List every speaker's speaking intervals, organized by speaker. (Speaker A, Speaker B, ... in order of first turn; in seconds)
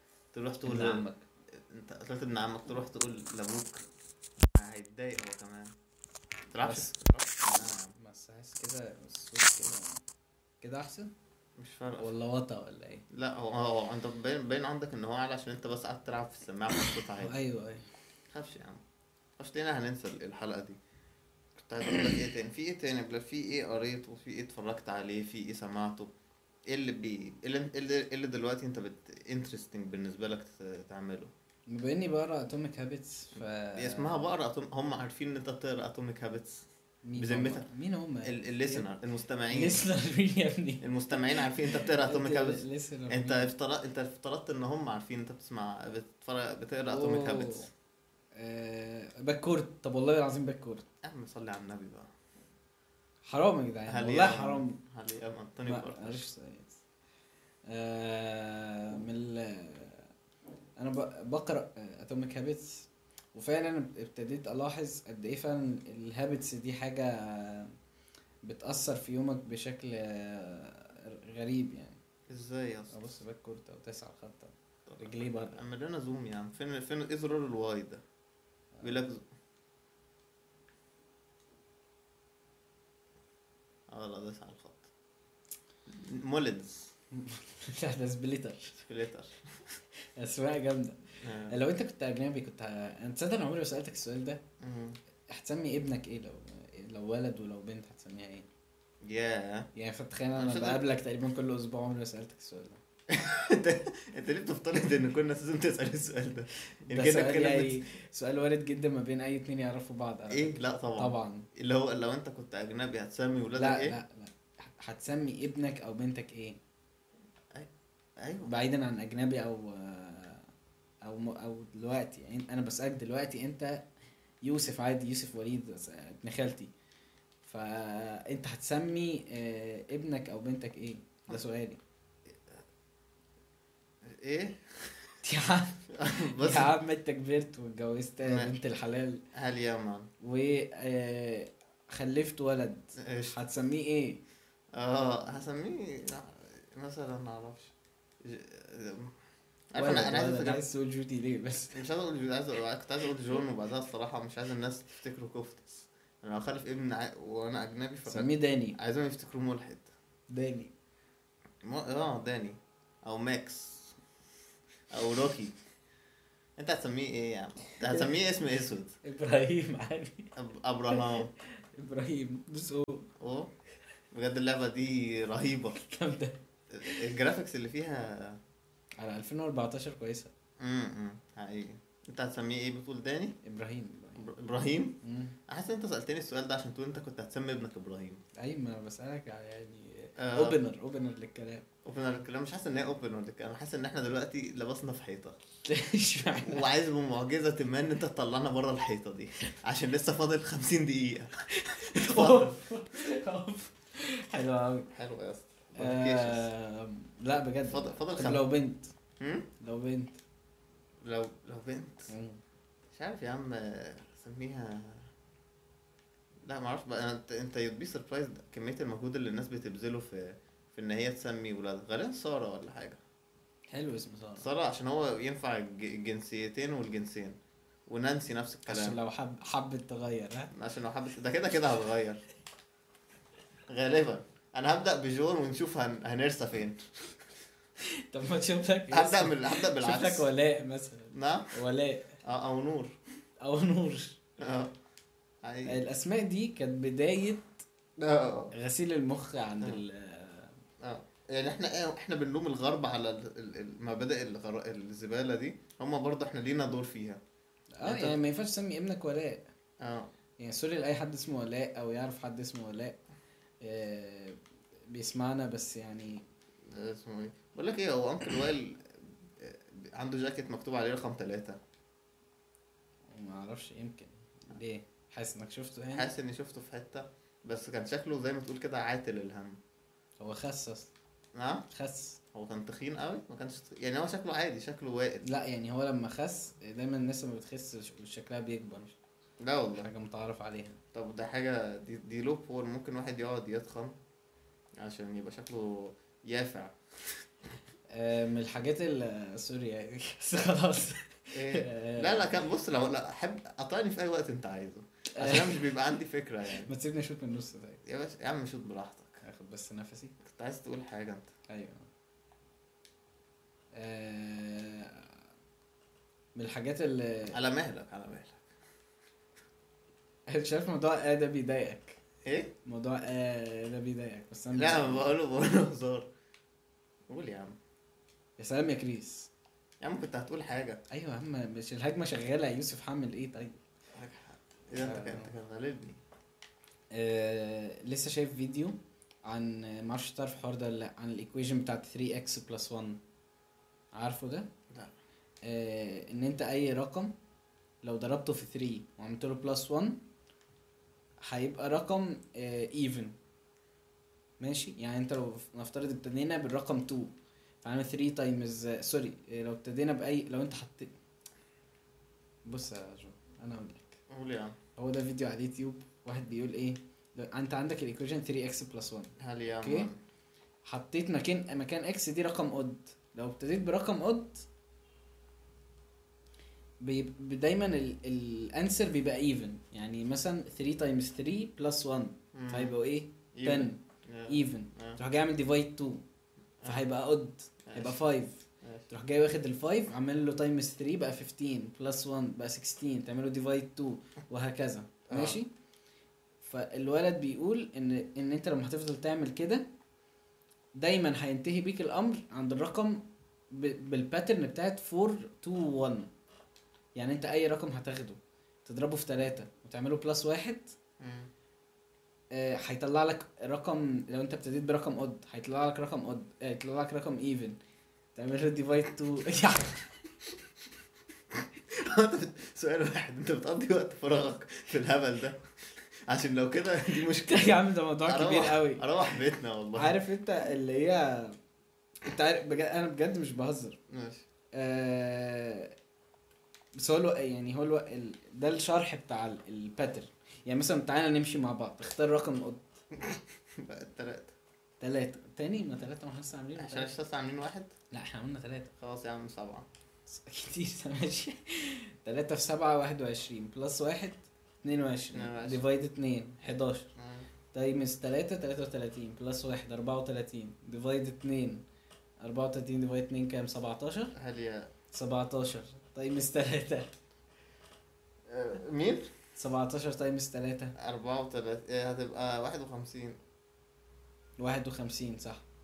Speaker A: 0.3-1.0, 1.7-3.8, 4.5-5.7, 6.5-8.0, 11.6-12.1, 13.1-17.3, 18.3-18.8, 19.4-20.8, 21.6-26.1, 26.7-31.3, 33.7-36.6, 37.2-37.7, 38.2-39.8, 40.8-47.7, 51.0-52.1, 53.9-56.2, 72.3-73.1, 74.9-78.0, 78.8-79.3, 83.9-84.9, 85.9-86.9, 88.8-89.3, 91.2-91.6, 94.6-95.0, 99.0-99.7, 100.3-100.8, 103.1-107.8, 110.3-114.0, 118.2-118.5, 134.0-134.9, 135.9-136.7, 138.2-138.5, 139.3-140.1, 142.9-143.3, 144.7-149.1, 149.7-150.6, 151.7-159.9, 161.6-163.9, 164.9-165.6, 166.6-168.9, 170.3-171.3, 173.2-173.5, 174.1-175.8, 176.7-178.4, 180.6-183.3, 184.2-185.0, 185.5-188.2, 190.2-190.6, 191.8-195.4, 196.3-202.6, 204.9-206.5, 207.7-208.5, 209.2-209.5, 211.0-212.1, 212.9-215.1, 216.4-223.0, 224.4-229.0, 230.5-232.2, 233.7-236.8, 238.9-240.2, 241.1-241.6, 242.2-242.9, 244.4-244.7, 245.4-245.8, 248.0-248.5, 250.8-257.2, 257.8-258.2, 259.8-260.1, 266.7-271.6, 275.9-279.6, 281.3-281.6, 282.3-285.3, 289.4-289.9, 290.9-293.9, 294.8-296.7, 301.3-306.7, 307.8-309.2, 310.2-311.3, 317.3-318.4, 322.2-322.5, 324.6-326.1, 327.1-327.6, 329.8-330.8, 333.9-336.0, 364.1-364.6, 369.2-370.0, 382.3-382.7, 383.3-385.0, 387.6-388.0, 388.6-388.9, 395.1-395.4, 411.0-411.3, 421.4-425.4, 426.1-430.0, 433.9-434.2, 442.9-444.3, 446.6-447.7, 448.8-449.6, 455.1-455.6, 456.9-457.3, 464.1-464.7, 468.3-469.1, 470.8-473.2
Speaker B: 0.6-1.2, 6.6-6.9, 7.5-10.0, 10.6-11.1, 12.0-13.0, 17.2-17.9, 31.7-34.2, 37.0-38.9, 39.5-43.5, 46.9-47.7, 48.3-50.8, 53.2-54.8, 55.7-56.7, 57.7-60.1, 60.8-67.7, 68.4-72.0, 72.9-75.6, 87.1-88.8, 90.2-94.4, 95.3-98.5, 99.7-102.8, 106.9-111.5, 113.5-116.6, 118.4-120.5, 121.0-123.8, 124.4-126.7, 127.4-131.8, 135.2-139.2, 140.2-144.2, 149.8-151.8, 158.1-158.8, 160.3-160.7, 167.8-168.1, 169.0-170.3, 170.9-173.1, 175.8-177.0, 179.0-180.3, 183.4-184.3, 185.0-185.4, 188.4-191.6, 195.7-196.7, 201.5-204.9, 205.8-208.9, 209.6-210.2, 212.1-212.4, 223.7-224.5, 228.7-230.5, 237.8-242.2, 243.4-244.2, 245.7-247.5, 248.5-250.6, 257.8-259.4, 260.4-263.0, 263.6-264.4, 264.9-266.2, 273.1-276.1, 280.2-280.9, 281.7-282.2, 285.2-288.9, 289.8-290.8, 297.9-302.3, 305.1-305.7, 306.5-307.8, 309.2-310.1, 311.5-311.9, 313.7-315.2, 316.3-317.4, 320.3-322.0, 322.6-325.1, 328.4-329.3, 330.9-333.6, 334.8-335.3, 336.9-343.0, 343.9-344.5, 345.4-347.1, 347.8-350.0, 351.2-353.1, 354.4-360.9, 362.4-364.0, 364.8-369.9, 370.6-374.4, 376.8-386.0, 386.6-395.5, 396.4-399.6, 400.7-406.1, 406.9-410.7, 412.3-417.6, 418.1-419.9, 427.1-428.8, 429.7-431.4, 432.0-433.8, 434.5-435.7, 436.7-442.6, 444.8-446.9, 447.9-448.7, 450.1-456.9, 457.5-461.6, 462.2-464.1, 464.9-466.9, 469.4-470.7, 474.4-475.4